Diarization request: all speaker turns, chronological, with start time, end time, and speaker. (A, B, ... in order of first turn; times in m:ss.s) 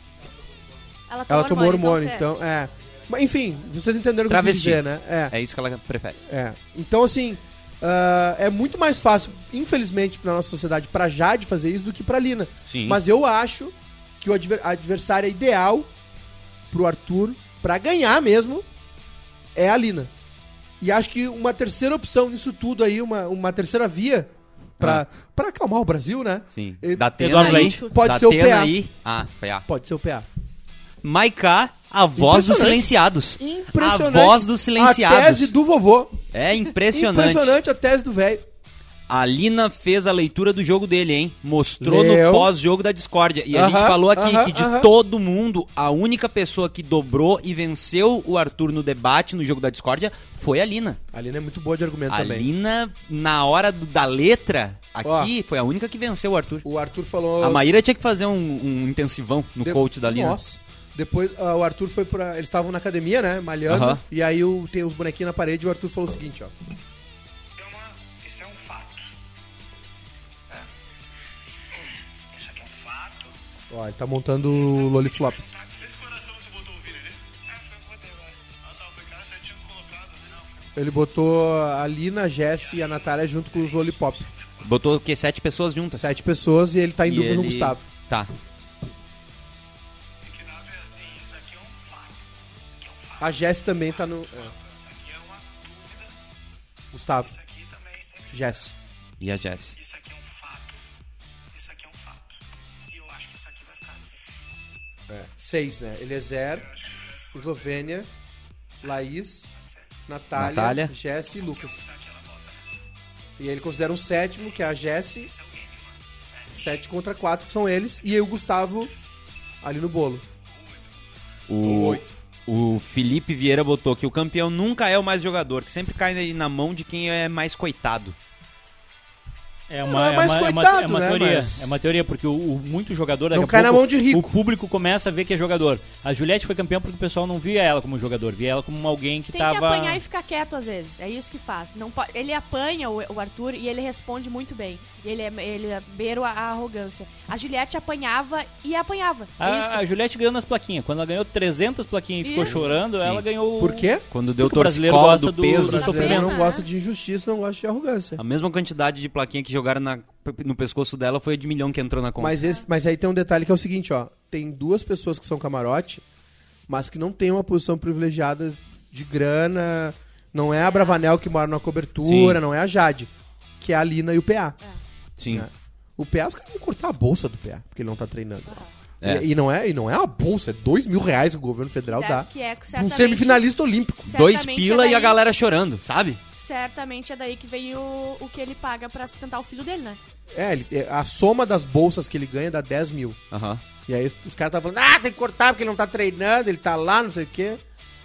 0:01.1-0:02.4 A
0:01.3-0:05.3 B
0:04.3-0:06.2 C
0:06.2-0:15.9 B
0:12.7-0:13.0 C
0:16.7-0:18.6 B
0:19.5-0:20.1 B
0:20.8-0:28.7 B
0:26.5-0:29.6 C
0:27.2-0:27.8 D
0:27.4-0:28.0 A
0:29.6-0:30.2 B
0:31.0-0:35.5 C
0:32.2-0:36.1 B
0:36.3-0:37.5 C
0:36.9-0:38.4 B
0:39.1-0:51.0 C
0:41.8-0:42.5 B
0:43.5-0:44.9 B
0:51.1-0:52.5 B
0:52.1-0:56.6 C
0:55.0-0:55.3 B
0:56.6-0:57.8 B
0:57.4-1:00.4 C
0:59.6-1:06.5 B
1:03.7-1:04.0 C
1:07.6-1:09.1 E
1:12.3-1:13.3 E
1:13.7-1:15.5 B
1:14.6-1:20.5 E
1:20.8-1:24.3 B
1:23.7-1:24.0 E
1:24.6-1:26.1 C
1:25.9-1:27.9 B
1:27.0-1:28.3 C
1:30.2-1:32.2 E
1:32.8-1:33.3 E
1:33.2-1:34.5 B
1:33.9-1:36.1 E
1:36.9-1:37.4 B
1:37.3-1:38.6 E
1:38.3-1:38.7 B
1:39.2-1:39.8 C
1:39.8-1:40.7 E
1:41.5-1:44.2 E
1:45.1-1:46.7 B
1:46.7-1:47.6 E
1:47.3-1:48.1 B
1:48.8-1:49.5 B
1:50.1-1:51.8 B
1:50.3-1:50.9 C
1:51.3-1:52.6 E
1:53.4-1:55.3 B
1:55.3-1:56.7 E
1:56.5-1:58.9 B
1:59.6-2:00.2 B
2:00.6-2:00.9 E
2:01.5-2:08.2 C
2:01.6-2:02.1 B
2:09.7-2:20.0 D
2:09.8-2:11.7 B
2:13.3-2:14.3 B
2:19.3-2:29.8 A
2:29.4-2:36.4 D
2:32.2-2:32.6 A
2:32.9-2:33.2 C
2:33.6-2:34.0 B
2:34.1-2:36.2 C
2:35.6-2:38.2 B
2:35.8-2:36.6 A
2:38.2-2:42.4 C
2:42.2-2:46.0 B
2:42.4-2:42.6 A
2:46.7-2:54.6 B
2:50.6-2:51.0 A
2:52.0-2:52.4 C
2:55.2-2:55.5 C
2:55.3-3:04.2 B
2:59.0-2:59.3 C
3:01.9-3:03.4 A
3:04.0-3:05.2 A
3:04.1-3:06.2 C
3:06.3-3:10.0 A
3:10.3-3:13.2 B
3:13.3-3:13.6 C
3:13.9-3:17.6 B